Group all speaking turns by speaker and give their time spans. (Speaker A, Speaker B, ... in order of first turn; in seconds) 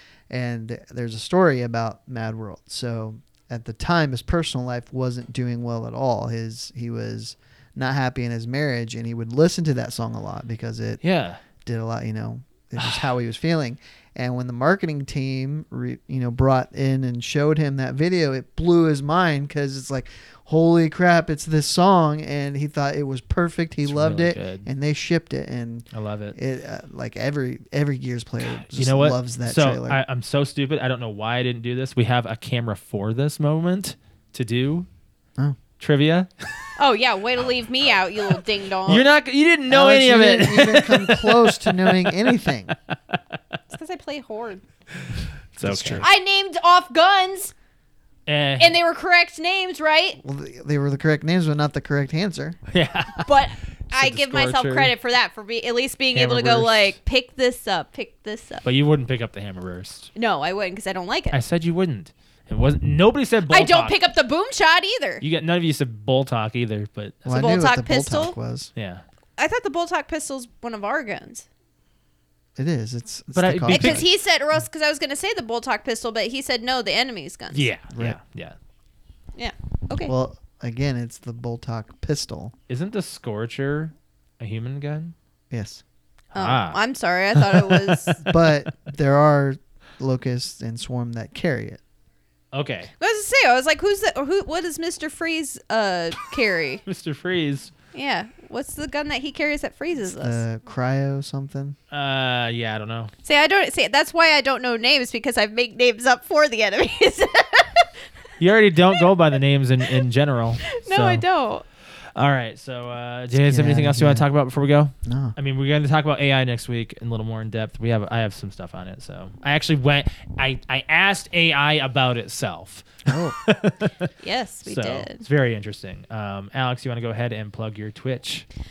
Speaker A: 0.3-11.0, 11.6-30.0, 39.7-42.7, 45.6-46.1, 50.2-52.6, 67.2-68.7, 72.6-74.0, 80.0-82.5, 85.5-85.8, 88.3-91.8, 100.0-101.8, 113.3-114.3, 115.0-115.3, 123.1-123.3
Speaker B: 11.0-11.4, 12.8-13.0, 23.8-24.6, 25.9-26.4, 28.4-34.9, 35.8-36.7, 37.8-42.4, 42.9-43.4, 44.9-46.0, 48.3-48.8, 52.7-53.3, 53.9-54.9, 56.1-56.9, 58.6-60.1, 61.3-63.9, 65.2-67.4, 68.7-69.0, 73.3-74.0, 77.5-78.5, 82.7-85.1, 86.3-86.8, 87.4-88.3, 92.5-92.9, 96.8-97.7, 101.9-103.1, 108.4-111.2, 112.2-124.1, 124.7-128.4
Speaker C: 36.8-39.0, 43.7-44.6, 46.0-47.5, 48.6-50.2, 53.2-58.6, 60.1-61.4, 63.5-65.2, 67.3-68.3, 69.4-71.5, 73.7-77.7, 79.3-80.1, 86.3-88.3, 93.0-96.8, 97.9-100.4, 103.2-107.9, 110.7-111.6, 124.2-125.2